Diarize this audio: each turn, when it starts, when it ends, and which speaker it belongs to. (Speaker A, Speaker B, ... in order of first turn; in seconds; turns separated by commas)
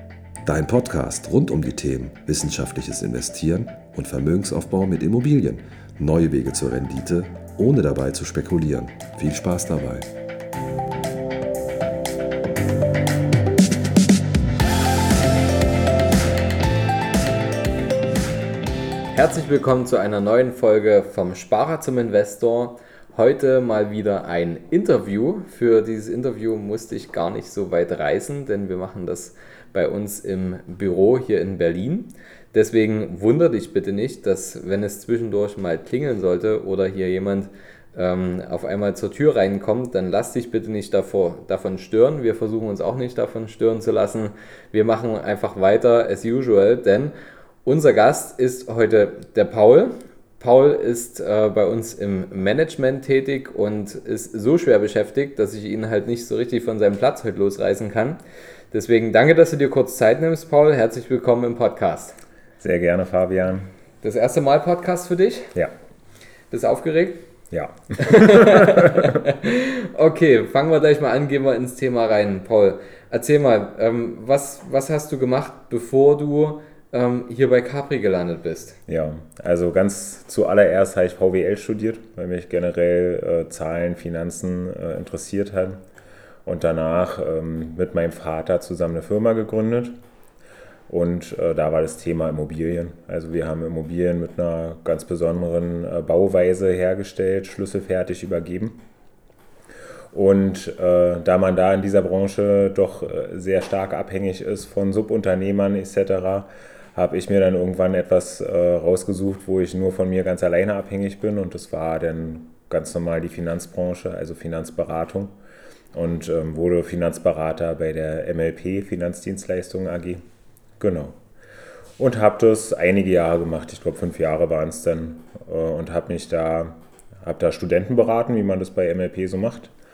Speaker A: 0.5-10.1, Speaker B: 19.1-47.1, Speaker B: 47.6-58.2, Speaker B: 58.7-62.2, Speaker C: 62.6-63.7, Speaker B: 64.0-65.5, Speaker B: 66.5-67.3, Speaker C: 67.5-69.2, Speaker B: 68.0-78.8, Speaker C: 78.9-85.8, Speaker C: 86.5-90.0, Speaker C: 90.9-98.8, Speaker C: 100.1-115.3, Speaker C: 115.9-120.2, Speaker C: 120.8-121.2, Speaker C: 122.0-129.7